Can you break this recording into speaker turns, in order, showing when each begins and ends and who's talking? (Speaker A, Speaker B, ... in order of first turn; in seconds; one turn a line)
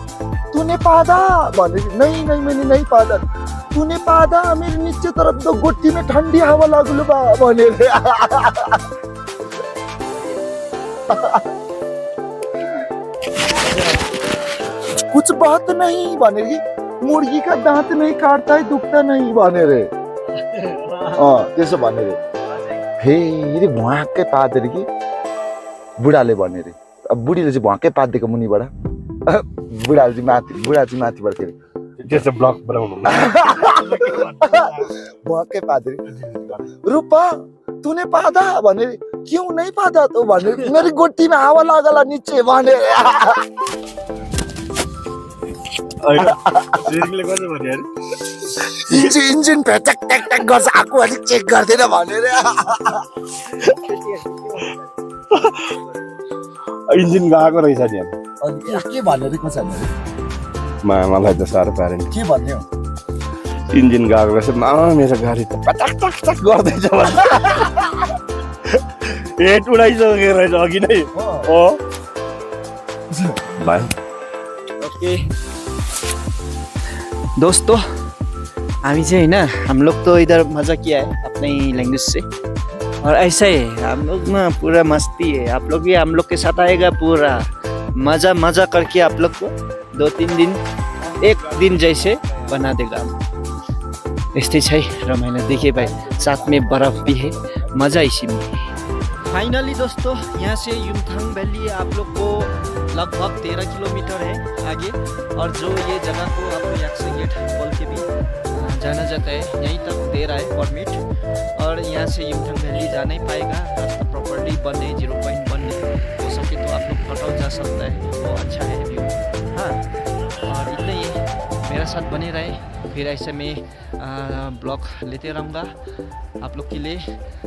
Speaker A: 0.5-8.8
Speaker A: 11.1-11.4
Speaker A: 14.8-19.9
Speaker B: 20.4-21.4
Speaker A: 21.1-22.2
Speaker B: 22.5-22.8
Speaker A: 23.0-24.9
Speaker A: 26.0-28.7
Speaker A: 29.2-31.5
Speaker C: 32.0-34.2
Speaker A: 33.1-43.5
Speaker C: 46.0-47.9
Speaker A: 46.2-46.8
Speaker A: 48.5-53.0
Speaker C: 53.7-54.6
Speaker C: 55.3-55.9
Speaker C: 56.9-58.1
Speaker A: 58.4-59.9
Speaker C: 60.8-62.1
Speaker A: 62.1-62.6
Speaker C: 63.7-68.1
Speaker C: 68.7-71.8
Speaker A: 71.1-71.5
Speaker A: 73.2-73.5
Speaker C: 73.5-73.9
Speaker B: 74.8-75.2
Speaker B: 77.4-77.8
Speaker B: 78.8-82.2
Speaker B: 83.0-87.4
Speaker B: 88.0-90.6
Speaker B: 91.2-93.1
Speaker B: 94.3-119.9
Speaker A: 95.9-96.9
Speaker B: 120.4-125.8
Speaker B: 126.4-127.1